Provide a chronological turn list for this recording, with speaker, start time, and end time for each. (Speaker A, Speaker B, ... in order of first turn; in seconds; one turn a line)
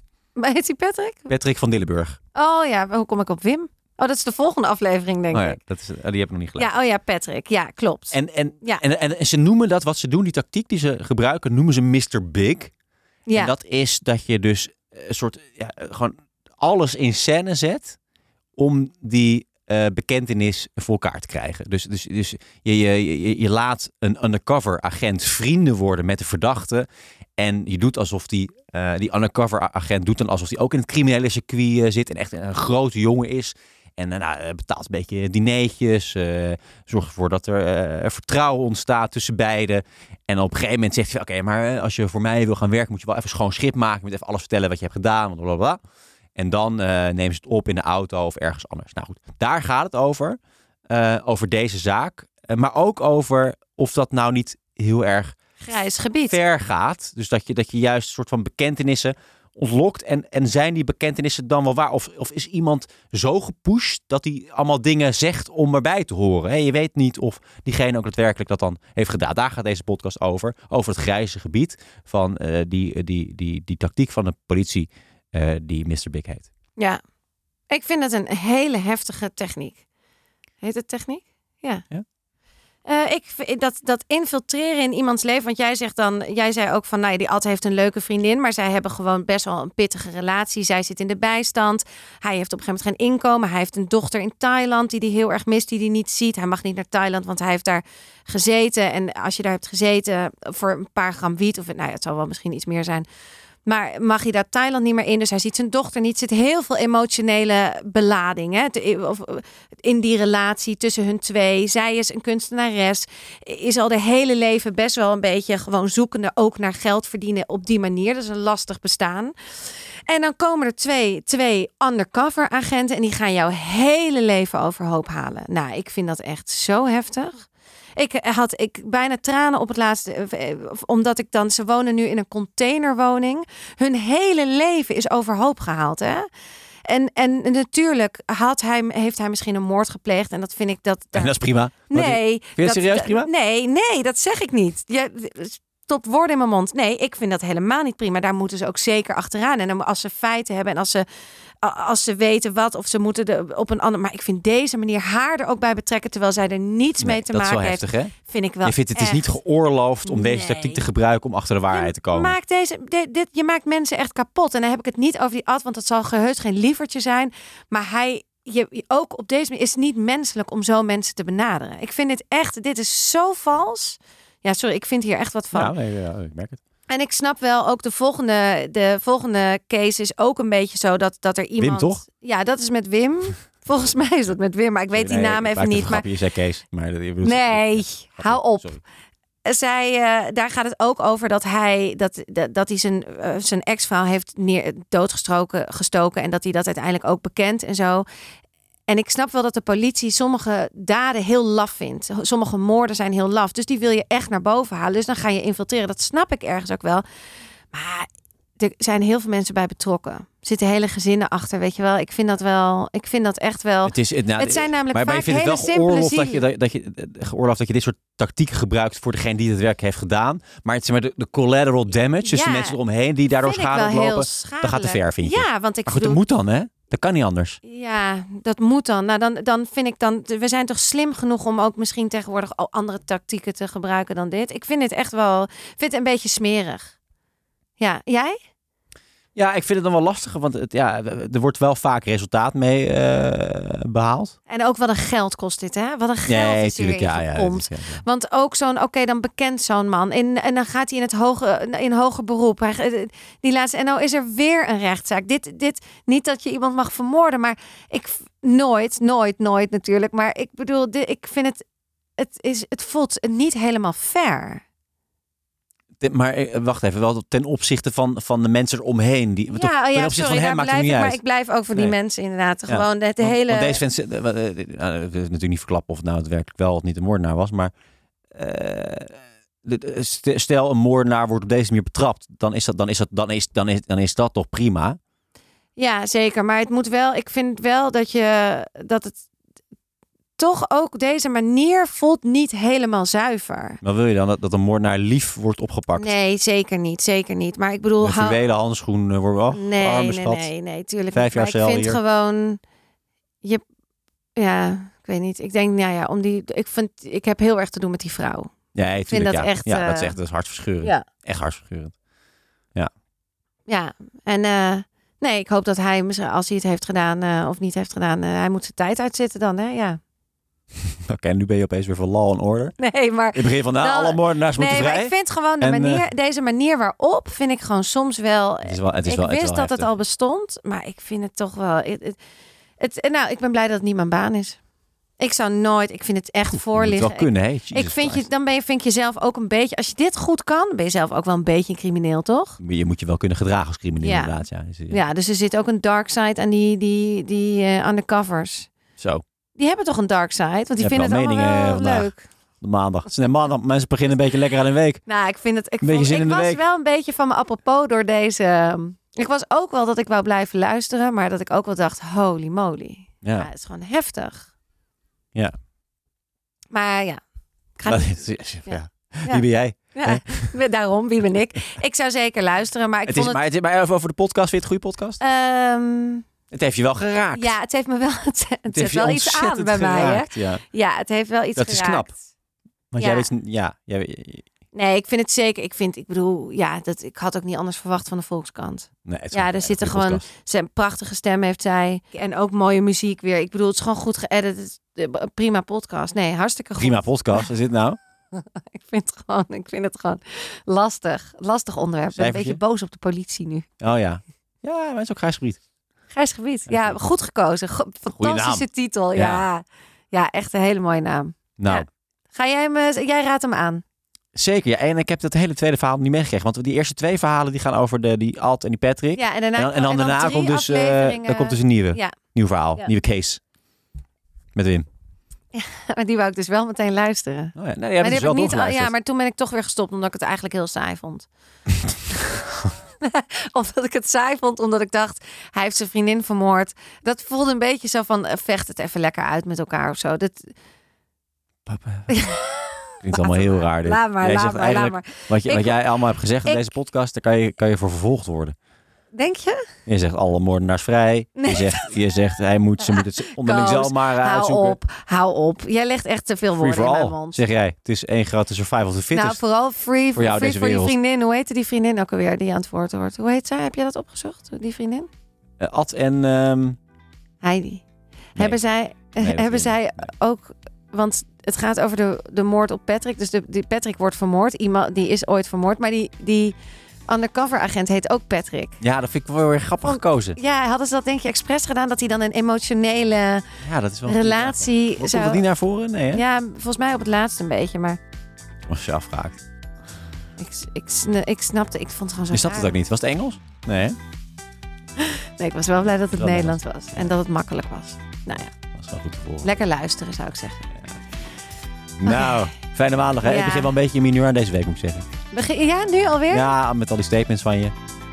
Speaker A: 0.3-1.3
Speaker B: 1.3-2.2
Speaker A: 2.3-5.6
Speaker B: 5.3-6.7
Speaker A: 6.6-8.8
Speaker B: 8.1-12.7
Speaker A: 13.3-13.5
Speaker B: 13.3-18.0
Speaker B: 18.6-45.8
Speaker B: 46.4-55.4
Speaker A: 55.6-56.4
Speaker B: 56.3-76.5
Speaker A: 77.7-79.8
Speaker A: 80.6-81.8
Speaker A: 82.8-103.0
Speaker A: 103.6-119.3
Speaker A: 120.1-136.2
Speaker A: 136.8-141.3
Speaker B: 141.1-143.3
Speaker A: 141.9-151.0
Speaker A: 151.6-159.3
Speaker B: 157.0-158.1
Speaker B: 158.6-162.3
Speaker A: 160.0-160.8
Speaker A: 161.7-175.7
Speaker B: 175.5-176.6
Speaker A: 176.9-186.1
Speaker B: 181.6-182.0
Speaker B: 184.9-188.8
Speaker A: 187.2-188.8
Speaker A: 189.4-198.1
Speaker A: 198.9-207.0
Speaker A: 207.7-208.1
Speaker A: 208.6-216.4
Speaker B: 213.8-227.6
Speaker A: 222.2-222.8
Speaker A: 223.3-226.2
Speaker A: 227.6-236.9
Speaker A: 237.8-238.4
Speaker B: 239.3-244.3
Speaker A: 244.5-261.6
Speaker B: 246.3-248.0
Speaker A: 262.2-264.6
Speaker B: 266.0-271.2
Speaker A: 269.5-273.8
Speaker B: 272.7-277.7
Speaker B: 278.3-285.0
Speaker A: 285.8-289.2
Speaker A: 290.4-293.8
Speaker B: 293.8-296.1
Speaker A: 295.9-298.4
Speaker B: 298.0-300.5
Speaker A: 299.5-302.6
Speaker B: 301.1-302.0
Speaker A: 304.4-308.5
Speaker B: 308.7-311.9
Speaker A: 309.1-310.1
Speaker A: 313.7-320.0
Speaker B: 320.9-322.8
Speaker A: 322.8-332.2
Speaker B: 323.3-326.0
Speaker B: 328.6-329.9
Speaker A: 332.8-334.6
Speaker A: 335.2-342.6
Speaker B: 336.5-338.2
Speaker B: 342.6-345.0
Speaker A: 344.0-344.4
Speaker A: 344.9-348.7
Speaker B: 349.0-349.2
Speaker A: 349.6-352.2
Speaker B: 350.8-355.0
Speaker A: 355.1-364.5
Speaker B: 355.8-356.6
Speaker B: 363.2-363.5
Speaker A: 366.7-367.2
Speaker A: 367.8-368.1
Speaker B: 367.9-370.5
Speaker A: 368.6-373.4
Speaker B: 373.1-375.2
Speaker A: 375.2-376.3
Speaker B: 376.5-377.5
Speaker A: 377.3-382.2
Speaker B: 378.7-380.6
Speaker B: 381.6-382.1
Speaker B: 382.9-384.4
Speaker A: 383.0-383.3
Speaker A: 384.7-397.5
Speaker B: 389.0-390.2
Speaker B: 396.8-398.0
Speaker A: 398.3-403.7
Speaker B: 402.1-402.6
Speaker B: 403.8-405.6
Speaker A: 406.1-413.8
Speaker B: 406.7-407.0
Speaker B: 408.1-409.4
Speaker B: 411.6-411.9
Speaker B: 414.3-423.4
Speaker A: 419.1-422.1
Speaker B: 424.5-424.9
Speaker A: 425.5-431.3
Speaker B: 427.6-428.9
Speaker A: 433.0-440.5
Speaker B: 441.6-442.2
Speaker A: 442.1-445.8
Speaker B: 443.0-448.5
Speaker A: 446.4-446.7
Speaker A: 449.1-449.6
Speaker B: 449.9-454.8
Speaker A: 451.4-451.9
Speaker A: 452.9-457.4
Speaker B: 456.6-459.4
Speaker A: 459.1-465.1
Speaker B: 460.1-460.9
Speaker B: 465.6-466.8
Speaker A: 467.4-476.5
Speaker B: 469.1-469.8
Speaker A: 477.1-478.8
Speaker B: 478.8-480.4
Speaker A: 479.9-483.5
Speaker B: 483.6-486.2
Speaker A: 484.1-485.4
Speaker A: 486.1-488.0
Speaker B: 488.7-489.4
Speaker A: 490.4-492.7
Speaker B: 492.3-494.0
Speaker A: 495.0-498.5
Speaker B: 496.1-496.6
Speaker B: 498.7-499.5
Speaker A: 499.4-500.6
Speaker B: 502.0-505.1
Speaker A: 502.1-502.4
Speaker A: 503.2-503.7
Speaker A: 505.3-506.5
Speaker B: 506.3-507.7